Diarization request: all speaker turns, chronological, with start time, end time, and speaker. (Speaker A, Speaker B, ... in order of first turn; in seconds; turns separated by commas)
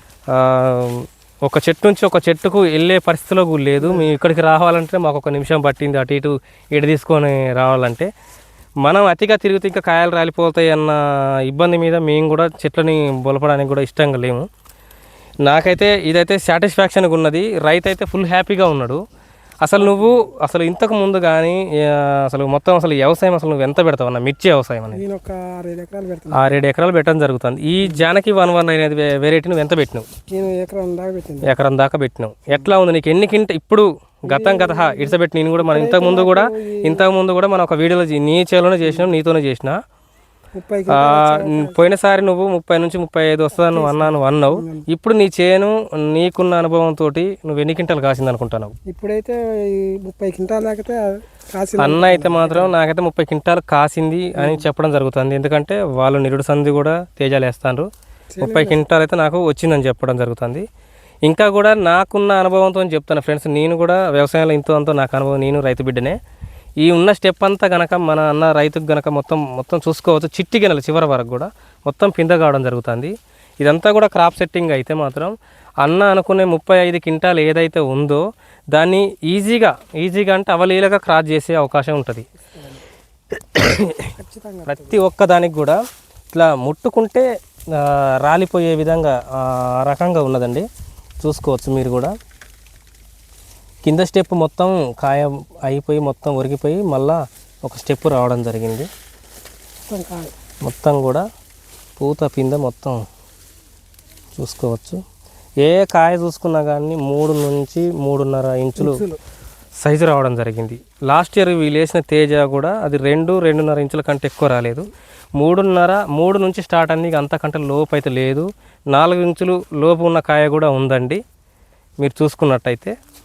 Speaker A: 0.3-8.1, Speaker B: 3.8-4.1, Speaker A: 8.8-14.4, Speaker A: 15.4-19.0, Speaker A: 19.6-25.0, Speaker B: 19.8-20.2, Speaker B: 24.9-26.5, Speaker A: 26.3-30.1, Speaker B: 30.3-31.5, Speaker A: 31.4-39.8, Speaker B: 34.3-37.1, Speaker B: 38.8-39.1, Speaker B: 40.5-41.8, Speaker A: 40.9-48.7, Speaker B: 43.5-44.9, Speaker B: 48.9-51.0, Speaker B: 51.5-52.7, Speaker A: 51.8-57.9, Speaker B: 54.4-54.6, Speaker B: 58.3-58.9, Speaker A: 58.4-60.7, Speaker A: 61.2-66.2, Speaker A: 66.8-82.3, Speaker B: 82.5-82.8, Speaker A: 83.3-84.1, Speaker B: 84.2-85.0, Speaker A: 84.7-85.8, Speaker A: 86.3-90.7, Speaker A: 91.2-92.1, Speaker A: 93.8-98.9, Speaker B: 99.9-100.3, Speaker A: 100.6-101.2, Speaker A: 102.0-103.0, Speaker A: 104.4-105.0, Speaker A: 105.6-109.0, Speaker B: 108.8-109.2, Speaker A: 109.8-121.2, Speaker A: 122.0-122.9